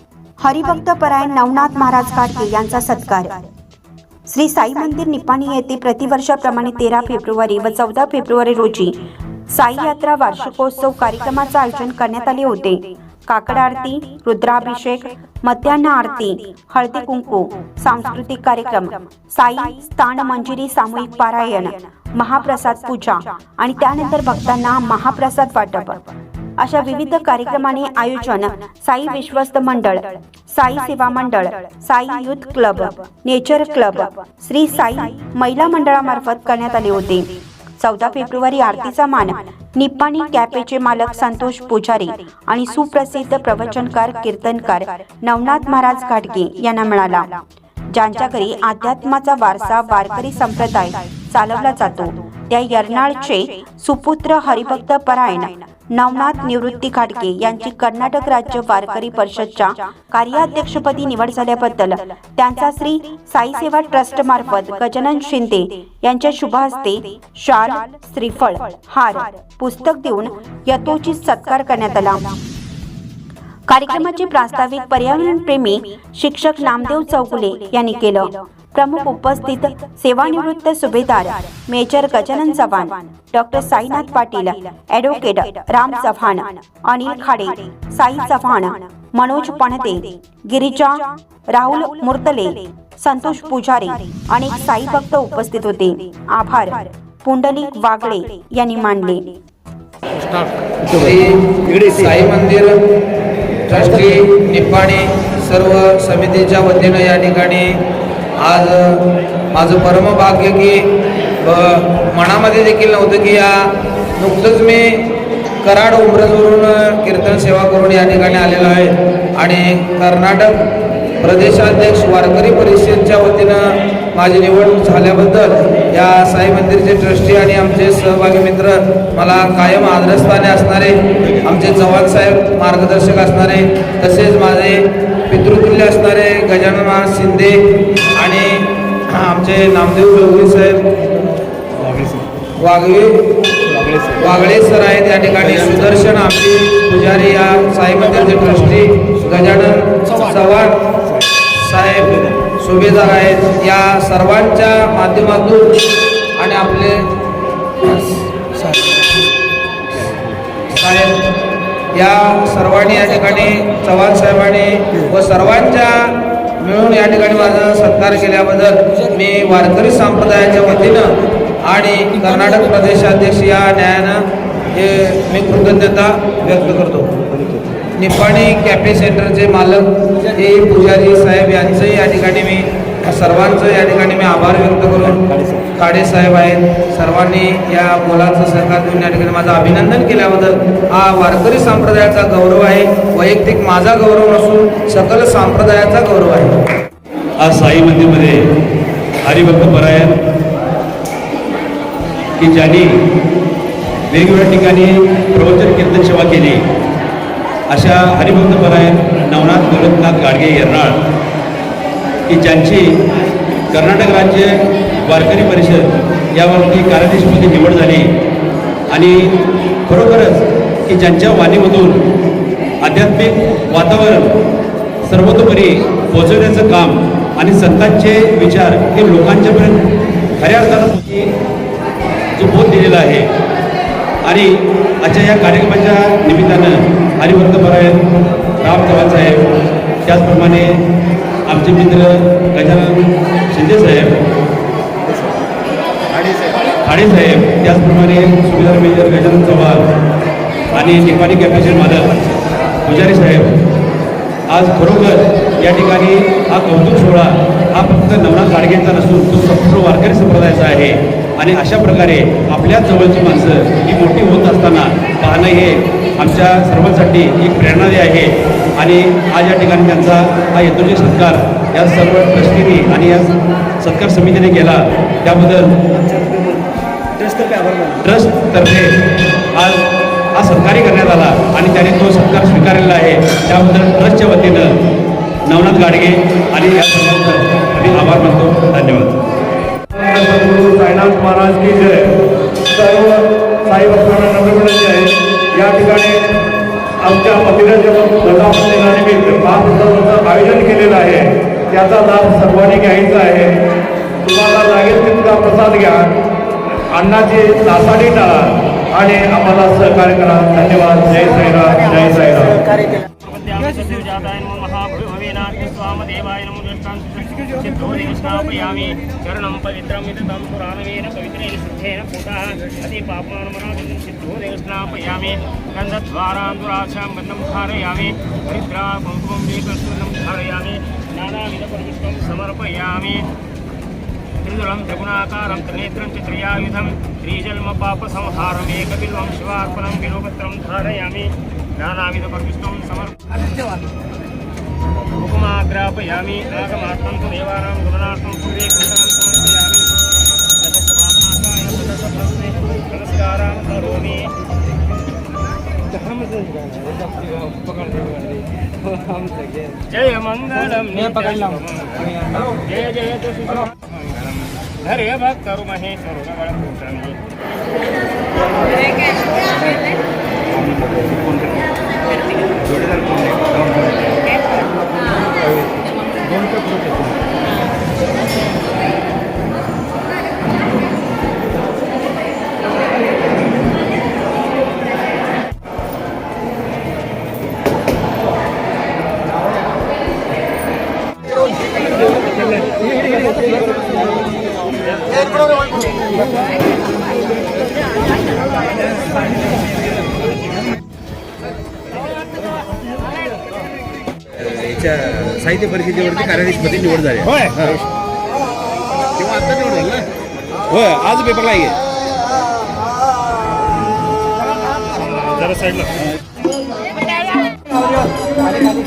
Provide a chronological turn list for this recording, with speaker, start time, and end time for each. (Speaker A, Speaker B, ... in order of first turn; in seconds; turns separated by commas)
Speaker A: 0.4-3.5, Speaker A: 4.3-9.0, Speaker A: 9.5-26.0, Speaker A: 26.6-47.4, Speaker A: 47.9-72.3, Speaker A: 73.7-99.4, Speaker B: 100.3-100.8, Speaker C: 100.9-102.8, Speaker C: 103.7-107.7, Speaker C: 108.4-110.8, Speaker C: 111.4-115.1, Speaker C: 115.6-120.6, Speaker C: 121.2-137.6, Speaker C: 138.1-140.8, Speaker B: 141.8-142.3, Speaker C: 142.6-143.3, Speaker C: 144.1-150.8, Speaker C: 151.6-155.8, Speaker C: 156.4-157.1, Speaker C: 157.8-158.8, Speaker C: 160.7-161.2, Speaker C: 161.9-174.2, Speaker C: 174.7-177.2, Speaker B: 177.3-177.8, Speaker C: 178.0-185.2, Speaker B: 185.3-185.6, Speaker C: 185.8-196.6, Speaker D: 197.4-198.4, Speaker D: 199.2-200.2, Speaker D: 202.4-202.9, Speaker D: 204.1-206.6, Speaker D: 207.7-211.0, Speaker D: 212.3-212.9, Speaker D: 213.7-218.1, Speaker D: 218.9-219.3, Speaker D: 219.9-222.0, Speaker D: 222.8-224.3, Speaker D: 225.1-229.9, Speaker D: 230.4-231.3, Speaker D: 232.4-233.3, Speaker D: 234.2-238.0, Speaker D: 238.6-239.5, Speaker D: 240.1-240.8, Speaker D: 241.5-244.2, Speaker B: 246.2-246.6, Speaker D: 246.8-249.9, Speaker D: 250.7-252.2, Speaker D: 252.8-253.6, Speaker D: 254.5-275.8, Speaker B: 276.1-276.6, Speaker B: 277.2-278.0, Speaker D: 278.0-278.9, Speaker D: 279.6-279.8, Speaker D: 280.4-284.7, Speaker D: 285.5-289.1, Speaker E: 289.9-292.1, Speaker E: 292.7-296.2, Speaker E: 297.0-303.5, Speaker E: 304.2-306.1, Speaker E: 306.9-312.6, Speaker F: 313.2-333.3, Speaker F: 334.4-343.3, Speaker F: 345.2-350.0, Speaker F: 350.6-354.3, Speaker F: 356.1-367.2, Speaker B: 370.8-371.2, Speaker B: 373.0-373.7, Speaker B: 404.4-407.3, Speaker B: 409.2-410.1, Speaker B: 410.7-411.8, Speaker F: 415.2-416.0